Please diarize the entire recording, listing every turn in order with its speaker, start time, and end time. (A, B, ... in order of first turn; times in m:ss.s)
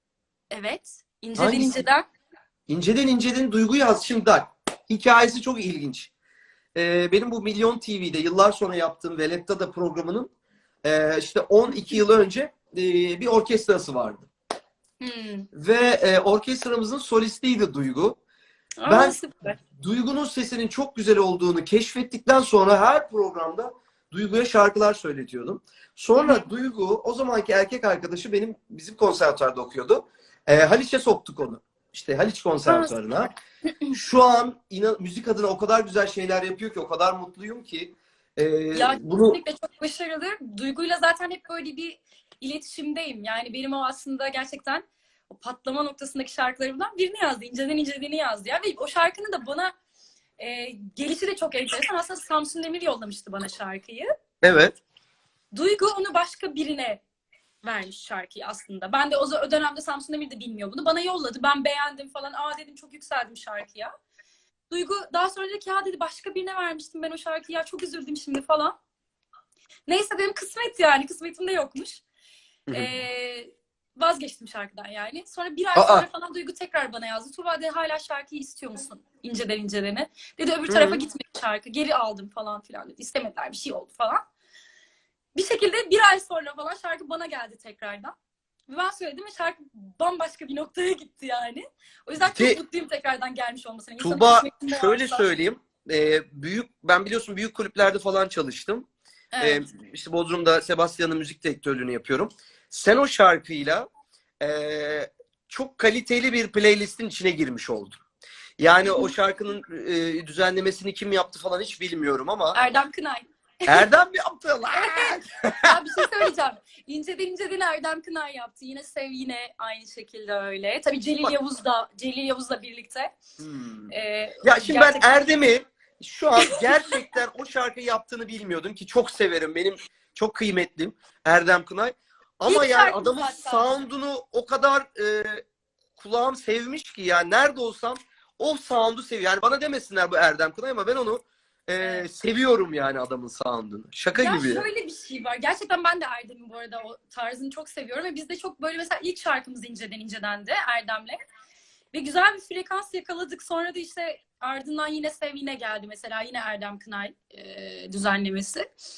0:00.5-0:02.1 A
0:01.4-0:01.8 B
0:02.7-0:06.1 B
0:06.7-0:10.3 B
0:10.8-0:14.3 B
0:15.0-0:15.5 A
0:15.5-0:18.2 B
0:18.8-0:19.6 A
0:18.8-0:19.2 B
0:19.7-0:33.3 B
0:26.2-0:26.5 A
0:32.7-0:33.3 A
0:33.9-0:39.4 B
0:38.7-0:49.7 A
0:50.4-0:54.1 A
0:54.4-0:54.8 B
0:55.5-0:57.0 A
0:57.6-1:03.9 A
1:04.7-1:08.8 A
1:09.9-1:12.0 A
1:12.7-1:12.9 B
1:12.7-1:24.2 A
1:15.7-1:16.0 B
1:20.7-1:21.0 B
1:25.3-1:28.1 A
1:28.7-1:35.2 A
1:32.2-1:32.6 B
1:34.0-1:38.9 B
1:39.3-1:39.6 A
1:39.4-1:43.8 B
1:44.4-1:48.0 B
1:48.6-1:52.6 B
1:48.8-1:49.1 A
1:52.5-1:53.9 A
1:53.7-1:55.6 B
1:54.7-2:03.1 A
2:03.4-2:03.9 B
2:03.9-2:05.4 A
2:04.4-2:15.4 B
2:06.4-2:06.7 A
2:12.4-2:13.8 A
2:16.0-2:24.6 B
2:21.8-2:22.1 A
2:24.1-2:31.2 A
2:31.9-2:38.7 A